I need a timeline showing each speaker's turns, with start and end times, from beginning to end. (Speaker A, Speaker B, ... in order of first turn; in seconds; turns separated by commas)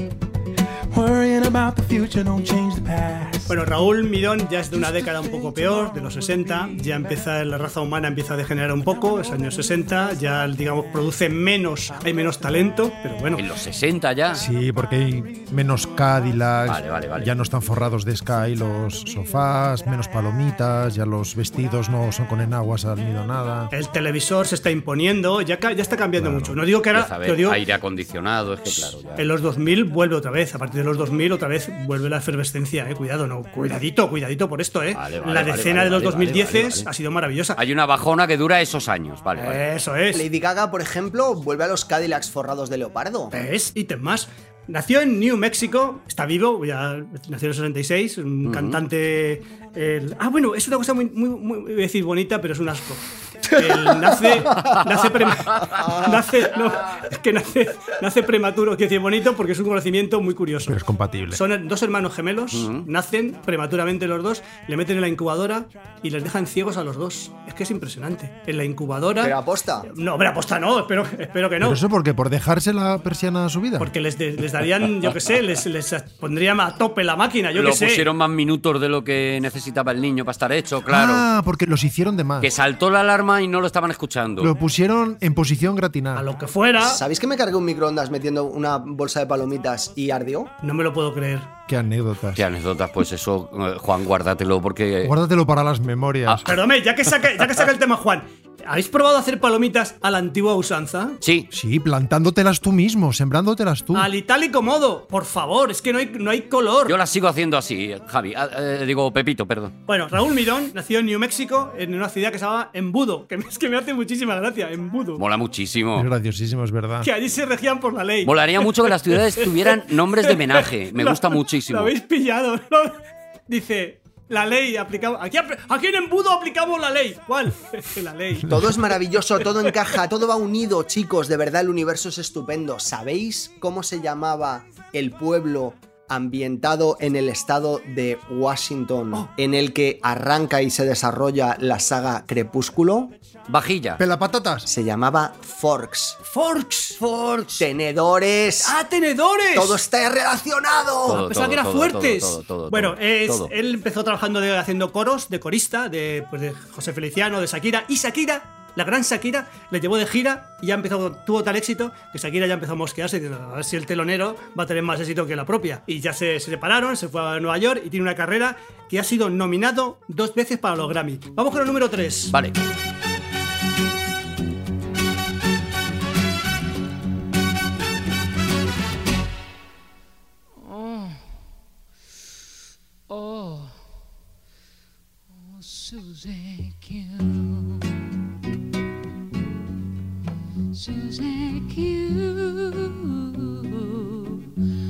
Speaker A: 0.9-3.6, Speaker B: 3.5-13.4, Speaker A: 4.8-6.3, Speaker C: 13.4-14.4, Speaker D: 14.3-23.7, Speaker C: 16.7-17.3, Speaker B: 23.7-27.6, Speaker D: 26.2-26.6, Speaker C: 26.9-29.2, Speaker B: 28.7-37.6, Speaker C: 34.9-36.9, Speaker C: 37.6-39.6, Speaker B: 39.4-40.2, Speaker E: 40.1-43.3, Speaker B: 43.3-60.8, Speaker C: 48.5-48.8, Speaker D: 60.7-61.4, Speaker B: 61.3-69.4, Speaker C: 62.5-62.9, Speaker E: 69.2-69.9, Speaker B: 69.9-71.8, Speaker D: 71.6-73.9, Speaker B: 73.8-78.1, Speaker C: 77.5-81.2, Speaker D: 80.9-82.5, Speaker C: 82.4-84.5, Speaker D: 84.4-86.3, Speaker B: 86.2-87.0, Speaker E: 86.8-90.5, Speaker B: 90.6-91.5, Speaker D: 91.7-92.4, Speaker C: 92.3-95.1, Speaker D: 95.0-96.5, Speaker B: 96.5-101.2, Speaker C: 101.2-101.5, Speaker D: 101.5-104.1, Speaker B: 103.9-107.0, Speaker C: 106.9-109.7, Speaker B: 109.9-115.2, Speaker C: 115.2-116.1, Speaker D: 116.0-117.1, Speaker B: 117.0-128.7, Speaker C: 118.2-121.9, Speaker E: 128.5-143.2, Speaker C: 143.5-144.0, Speaker D: 144.0-144.7, Speaker E: 144.7-146.2, Speaker B: 146.3-147.0, Speaker C: 147.0-147.6, Speaker E: 147.6-148.8, Speaker B: 148.6-149.8, Speaker E: 149.5-151.2, Speaker C: 151.1-153.5, Speaker B: 151.1-172.3, Speaker C: 172.3-172.6, Speaker F: 180.6-181.2, Speaker F: 183.1-183.8, Speaker F: 185.3-187.9, Speaker F: 190.7-194.4